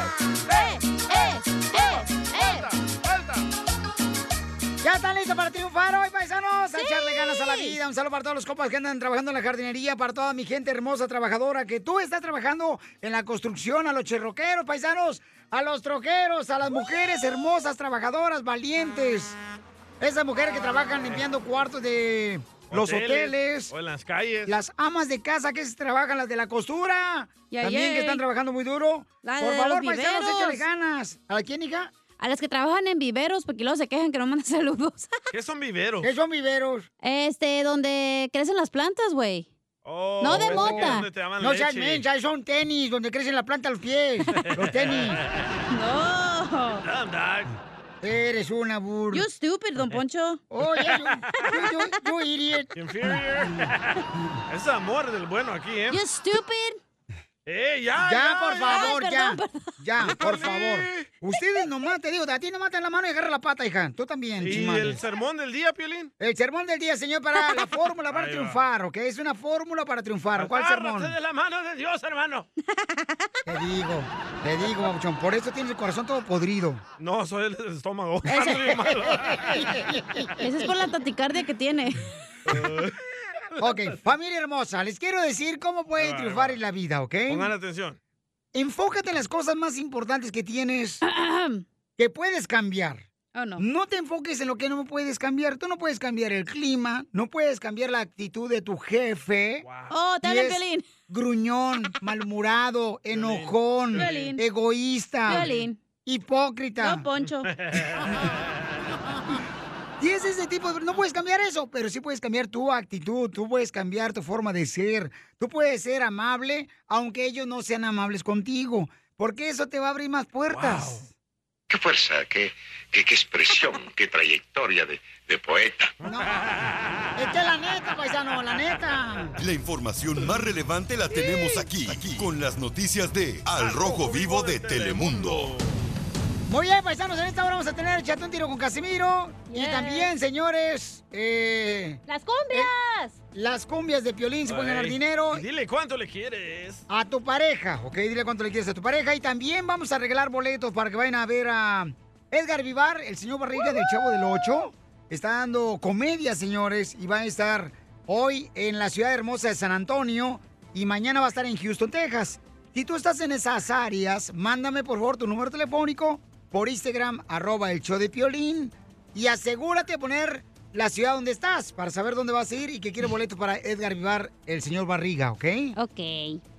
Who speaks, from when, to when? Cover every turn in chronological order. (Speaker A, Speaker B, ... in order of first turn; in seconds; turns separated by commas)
Speaker A: 0.5-2.7, Speaker B: 2.3-3.3, Speaker C: 4.8-19.4, Speaker A: 6.8-7.8, Speaker C: 20.0-23.7, Speaker B: 22.7-24.5, Speaker C: 24.5-31.9, Speaker A: 27.5-28.2, Speaker A: 29.2-30.6, Speaker A: 32.2-35.1, Speaker B: 35.3-36.1, Speaker C: 36.0-36.9, Speaker A: 37.0-39.5, Speaker B: 39.8-42.0, Speaker A: 40.2-41.1, Speaker C: 40.2-45.2, Speaker B: 44.5-45.5, Speaker A: 45.7-46.8, Speaker B: 46.8-47.5, Speaker C: 48.0-49.2, Speaker A: 49.1-50.4, Speaker C: 50.5-53.7, Speaker A: 51.5-51.9, Speaker B: 52.7-56.0, Speaker A: 55.9-56.8, Speaker B: 57.5-59.0, Speaker C: 58.0-65.0, Speaker A: 58.7-59.7, Speaker B: 60.0-61.1, Speaker B: 64.4-66.1, Speaker C: 66.2-71.1, Speaker A: 67.4-67.7, Speaker B: 68.1-68.6, Speaker B: 70.3-72.5, Speaker A: 72.8-73.2, Speaker C: 73.5-76.8, Speaker B: 77.0-79.7, Speaker C: 78.3-80.3, Speaker A: 80.4-82.1, Speaker B: 82.5-83.0, Speaker C: 83.6-87.5, Speaker B: 86.0-86.6, Speaker B: 87.3-88.0, Speaker C: 88.5-91.0, Speaker A: 91.0-91.6, Speaker C: 92.0-99.6, Speaker A: 93.3-93.6, Speaker B: 99.6-99.9, Speaker A: 99.9-100.8, Speaker C: 100.2-105.5, Speaker B: 103.1-104.3, Speaker A: 103.9-104.4, Speaker A: 105.2-105.8, Speaker B: 105.3-105.6, Speaker C: 106.0-107.0, Speaker A: 106.8-107.5, Speaker B: 107.4-108.5, Speaker C: 108.0-108.3, Speaker C: 110.0-121.0, Speaker B: 120.5-121.0, Speaker D: 121.7-125.9, Speaker C: 126.0-126.4, Speaker C: 127.2-129.3, Speaker E: 129.4-135.5, Speaker B: 133.6-135.8, Speaker C: 136.5-142.0, Speaker A: 139.5-140.1, Speaker A: 142.1-143.2, Speaker C: 143.3-145.4, Speaker B: 144.5-146.8, Speaker C: 146.9-175.7, Speaker A: 175.8-176.4